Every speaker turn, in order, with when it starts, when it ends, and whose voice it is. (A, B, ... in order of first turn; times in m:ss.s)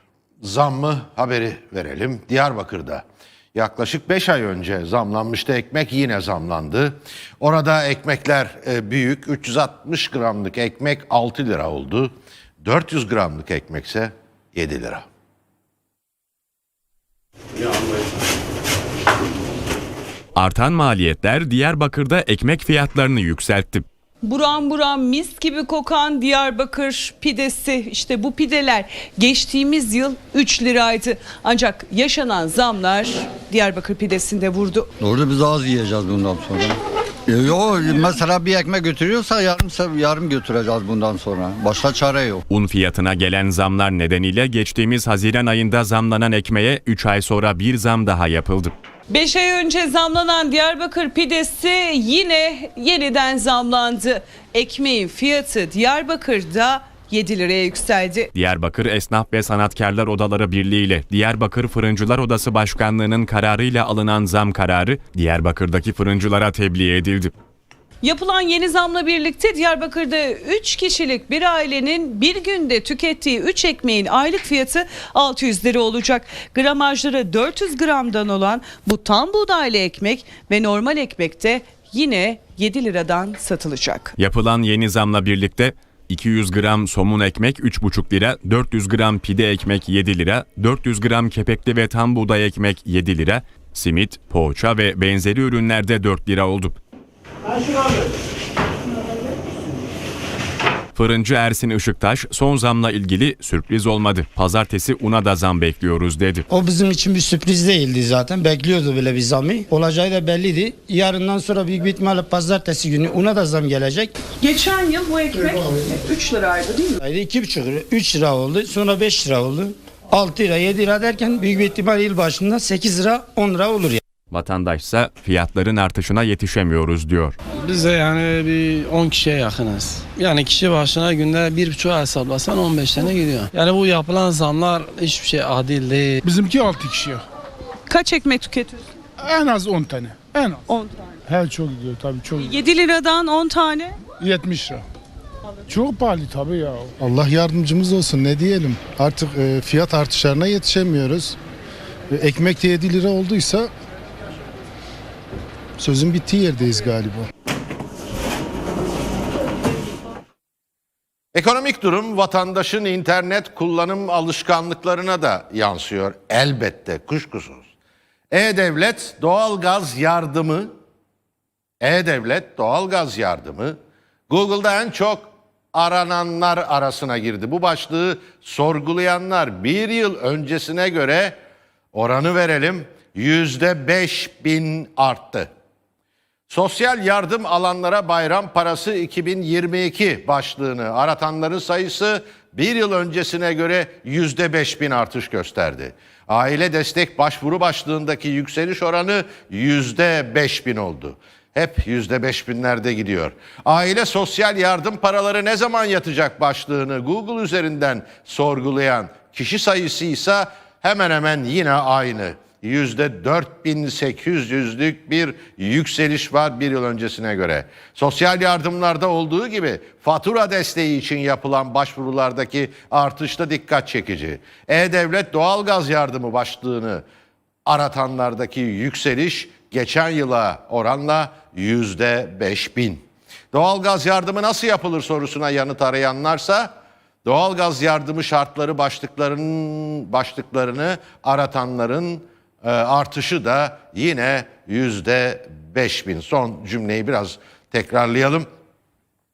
0:00.4-0:03.0 A
0:03.6-0:15.0 A
0:20.4-0:23.8 B
0:24.2-0:34.9 C
0:35.0-0:42.4 D
0:42.5-0:48.7 B
0:49.1-0:58.3 C
0:58.3-1:07.3 B
1:08.0-1:24.2 C
1:24.2-1:36.8 B
1:41.0-1:46.5 B
1:46.5-1:54.1 E
1:54.2-1:57.0 C
1:57.0-2:04.0 E
2:04.3-2:07.4 B
2:07.7-2:16.2 F
2:16.2-2:17.2 G
2:17.9-2:18.9 C
2:19.2-2:20.6 G
2:20.7-2:21.2 C
2:21.3-2:22.5 G
2:22.4-2:24.0 C
2:24.2-2:24.8 G
2:25.7-2:26.9 G
2:27.0-2:31.4 H
2:32.1-2:33.7 H
2:35.8-2:37.3 H
2:41.3-2:47.7 A
2:48.3-2:50.7 A
2:51.8-2:53.8 A
2:54.3-3:01.4 A
3:01.9-3:05.5 A
3:06.5-3:47.0 A
3:47.7-3:56.7 A
3:57.2-4:08.5 A